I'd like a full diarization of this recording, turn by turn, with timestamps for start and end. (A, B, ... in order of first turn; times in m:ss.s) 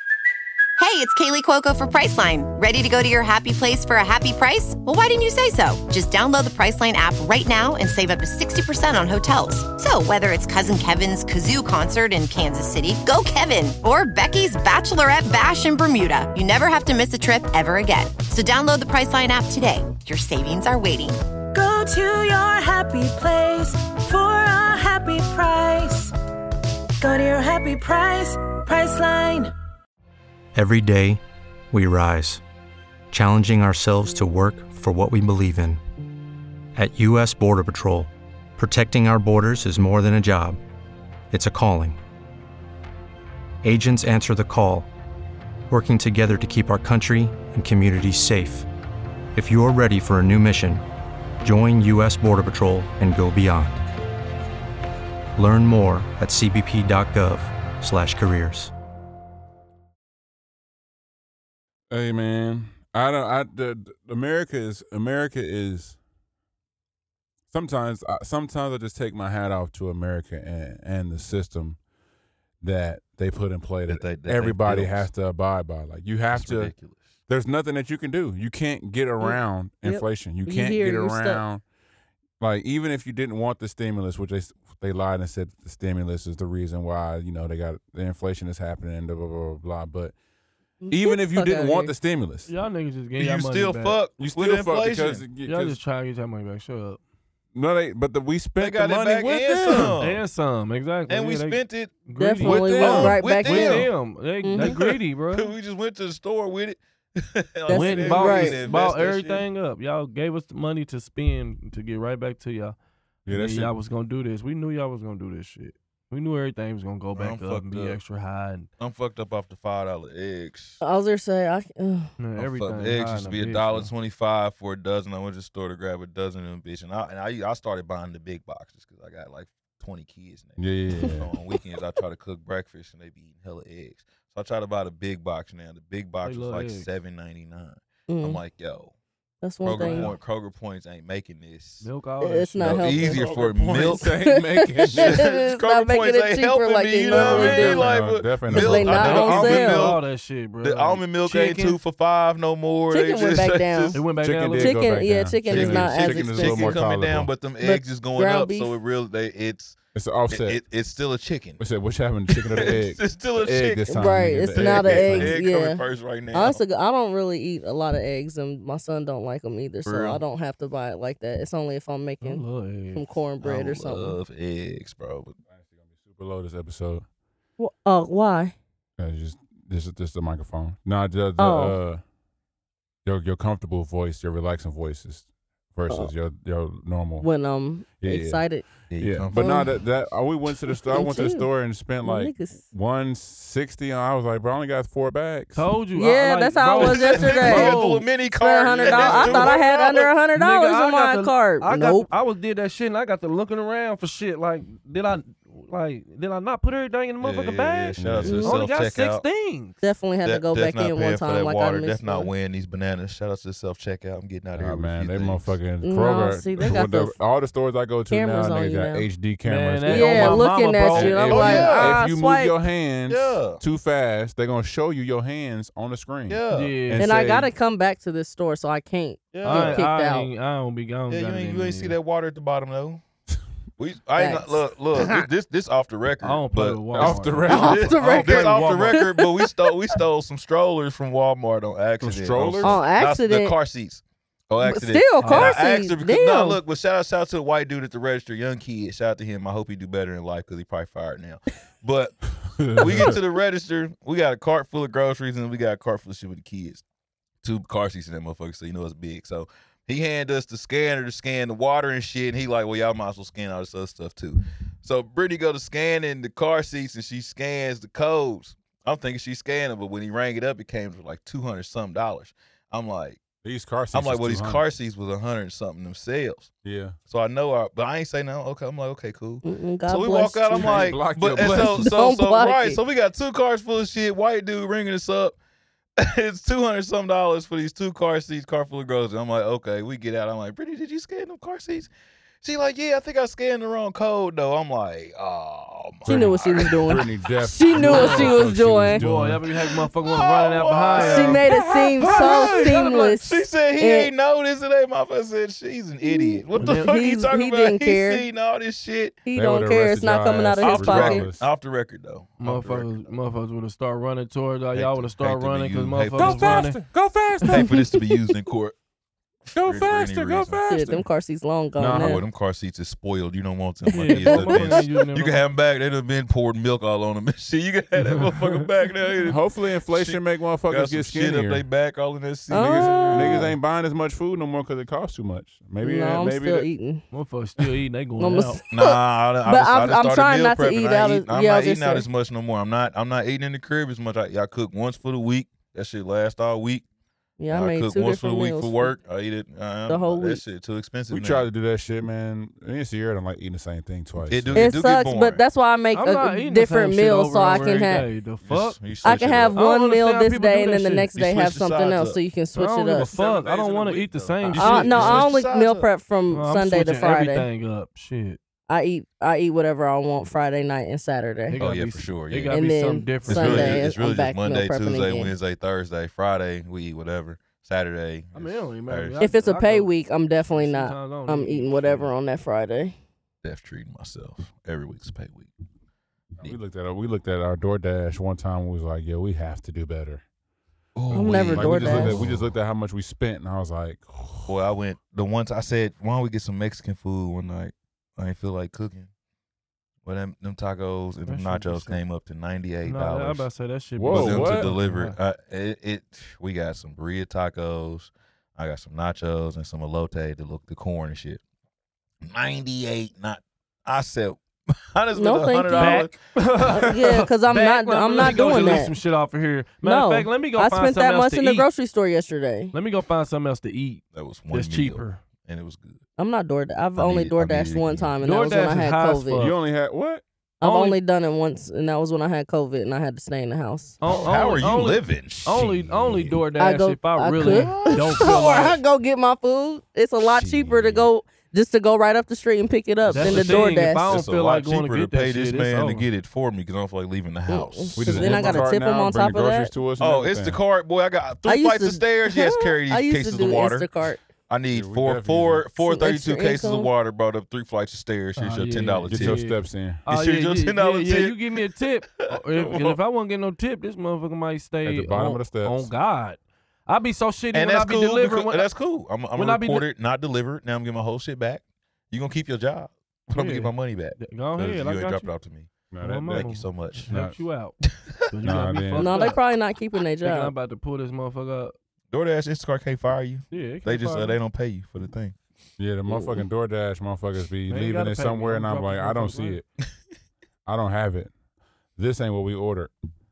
0:00.8-0:21.2 A
0:21.5-0:26.1 B
0:27.0-0:29.5 B
0:30.5-0:32.4 C
0:33.1-0:35.8 C
0:36.8-0:40.6 C
0:41.3-0:42.0 C
0:43.6-0:44.9 C
0:45.7-0:48.7 C
0:49.4-0:50.8 C
0:51.4-0:53.8 C
0:55.4-0:58.7 C
1:01.9-1:06.0 D
1:07.5-1:11.8 D
1:12.6-1:16.7 D
1:13.9-1:15.1 E
1:16.3-1:17.1 E
1:17.3-1:21.6 D
1:19.2-1:21.4 F
1:22.4-1:30.1 D
1:30.8-1:31.9 F
1:30.9-1:32.5 D
1:32.5-1:34.0 G
1:33.2-1:35.3 E
1:34.2-1:35.8 D
1:35.4-1:37.0 G
1:37.6-1:40.0 D
1:38.6-1:40.2 E
1:40.0-1:45.5 G
1:41.1-1:42.0 E
1:42.2-1:43.9 F
1:42.4-1:43.4 D
1:42.8-1:43.9 E
1:44.4-1:44.8 F
1:44.5-1:49.4 E
1:47.7-1:48.6 F
1:47.7-1:52.8 G
1:53.3-1:53.7 D
1:53.3-1:58.7 G
1:57.1-1:58.0 E
1:58.8-2:00.8 E
2:00.8-2:02.1 F
2:02.2-2:03.9 G
2:02.4-2:18.9 E
2:10.6-2:11.3 D
2:16.2-2:16.9 G
2:18.1-2:18.4 F
2:19.4-2:20.1 F
2:19.6-2:21.8 E
2:19.7-2:20.1 G
2:21.8-2:23.0 G
2:22.2-2:23.2 F
2:22.6-2:24.1 E
2:23.0-2:25.2 D
2:23.8-2:27.9 F
2:24.8-2:30.0 E
2:27.1-2:29.3 D
2:28.5-2:30.0 F
2:28.9-2:31.8 G
2:30.6-2:34.0 E
2:32.9-2:34.0 F
2:33.9-2:34.8 G
2:34.2-2:37.3 D
2:34.6-2:36.8 F
2:35.5-2:39.8 E
2:37.6-2:38.8 F
2:40.0-2:40.6 D
2:40.3-2:41.6 E
2:41.6-2:45.4 D
2:42.3-2:46.6 E
2:43.9-2:54.2 F
2:49.8-2:50.2 E
2:52.2-2:53.1 G
2:53.4-2:55.4 E
2:55.6-2:57.0 D
2:57.6-2:58.6 F
2:59.0-3:02.0 D
3:01.4-3:01.8 F
3:03.0-3:07.3 D
3:07.2-3:08.6 F
3:08.0-3:08.4 D
3:08.9-3:09.7 E
3:09.0-3:15.7 D
3:09.3-3:09.7 F
3:10.9-3:11.5 F
3:12.0-3:12.6 F
3:15.6-3:18.0 G
3:16.0-3:22.1 F
3:16.8-3:20.1 E
3:18.9-3:19.5 G
3:20.3-3:29.8 G
3:27.2-3:29.2 E
3:28.0-3:28.4 D
3:28.2-3:28.6 F
3:29.8-3:32.3 F
3:30.2-3:35.6 E
3:34.6-3:47.5 D
3:35.8-3:37.2 F
3:38.1-3:39.1 F
3:39.4-3:41.4 G
3:39.9-3:42.5 F
3:41.3-3:42.0 E
3:43.1-3:43.6 E
3:46.3-3:46.8 E
3:46.5-3:47.1 G
3:47.0-3:50.3 F
3:49.3-3:49.8 E
3:49.4-3:52.0 G
3:51.1-3:53.0 E
3:53.8-4:16.8 E
3:54.2-3:55.2 F
3:56.2-3:59.0 G
3:57.0-3:58.3 D
3:57.5-3:59.5 F
4:02.0-4:02.8 D
4:02.6-4:03.6 F
4:04.6-4:06.6 F
4:05.2-4:05.5 G
4:12.6-4:13.1 D
4:17.4-4:33.2 E
4:33.4-4:34.6 D
4:33.9-4:36.5 E
4:36.6-4:37.0 D
4:37.1-4:45.4 E
4:39.4-4:42.8 F
4:40.6-4:41.9 D
4:46.0-4:51.9 E
4:52.4-4:57.0 E
4:56.0-4:59.0 F
4:56.1-4:59.4 D
4:57.8-4:58.4 G
4:59.0-5:01.4 G
4:59.7-5:01.5 E
5:01.0-5:04.1 F
5:01.5-5:02.8 D
5:02.0-5:09.2 E
5:06.0-5:08.2 F
5:06.6-5:06.9 G
5:09.3-5:11.3 F
5:09.4-5:11.5 D
5:10.6-5:13.1 E
5:12.4-5:16.8 G
5:14.7-5:16.7 E
5:16.2-5:17.7 D
5:17.5-5:18.8 E
5:17.5-5:18.0 F
5:19.5-5:20.6 E
5:19.5-5:21.0 D
5:20.7-5:22.2 F
5:21.8-5:22.2 D
5:21.9-5:33.6 E
5:23.9-5:24.8 F
5:23.9-5:25.4 G
5:29.3-5:31.6 D
5:32.5-5:33.5 F
5:32.5-5:36.7 D
5:35.8-5:37.0 F
5:37.1-5:38.6 G
5:38.2-5:42.1 F
5:38.7-5:46.8 E
5:47.4-5:49.0 F
5:47.5-5:51.5 E
5:49.9-5:50.4 F
5:51.1-5:54.7 D
5:54.2-5:55.4 E
5:54.6-5:58.1 F
5:55.9-5:58.8 G
5:58.4-5:59.6 E
5:59.0-6:03.1 F
5:59.5-6:01.1 G
6:01.1-6:02.2 E
6:02.5-6:05.3 G
6:03.0-6:05.9 E
6:04.6-6:07.5 F
6:06.3-6:08.4 G
6:08.7-6:11.6 F
6:11.5-6:13.8 G
6:11.6-6:12.6 E
6:12.5-6:15.3 F
6:13.2-6:19.3 E
6:18.4-6:19.9 G
6:19.2-6:23.0 F
6:20.5-6:22.1 G
6:23.4-6:25.5 E
6:26.4-6:30.2 D
6:31.0-6:32.5 E
6:31.1-6:34.6 D
6:31.1-6:32.3 F
6:34.5-6:39.1 E
6:40.0-6:43.5 E
6:41.3-6:42.0 G
6:42.8-6:45.2 G
6:44.0-6:44.7 D
6:44.1-6:51.4 E
6:52.2-6:56.8 E
6:55.1-6:56.1 F
6:55.7-7:01.7 G
6:56.7-6:58.9 F
6:59.8-7:02.7 F
7:02.7-7:05.2 G
7:04.1-7:06.0 E
7:06.2-7:09.5 F
7:07.0-7:08.1 E
7:08.2-7:09.6 G
7:09.4-7:10.2 D
7:10.6-7:14.0 F
7:10.6-7:11.0 G
7:14.0-7:18.8 G
7:14.0-7:16.4 E
7:16.6-7:24.1 F
7:17.4-7:18.4 E
7:20.3-7:21.1 D
7:23.1-7:26.1 G
7:23.2-7:23.6 D
7:23.2-7:28.6 E
7:27.5-7:29.7 F
7:28.0-7:30.6 D
7:30.0-7:33.9 E
7:31.5-7:34.2 F
7:34.5-7:39.4 E
7:34.7-7:35.6 D
7:35.8-7:36.9 F
7:38.4-7:48.7 G
7:39.1-7:40.0 D
7:40.1-7:41.6 E
7:42.2-7:43.0 E
7:44.8-7:45.9 D
7:47.5-7:55.7 E
7:49.4-7:49.9 G
7:53.4-7:55.3 G
7:55.9-7:56.5 D
7:56.0-7:57.8 G
7:56.3-7:57.1 E
7:57.1-7:57.4 D
7:57.9-7:58.4 E
7:58.3-7:59.4 G
7:58.4-7:59.1 D
7:59.0-8:00.5 F
8:00.2-8:01.7 G
8:02.1-8:05.4 E
8:03.5-8:04.4 G
8:05.8-8:09.6 D
8:07.7-8:09.6 G
8:10.7-8:11.3 D
8:12.0-8:12.9 D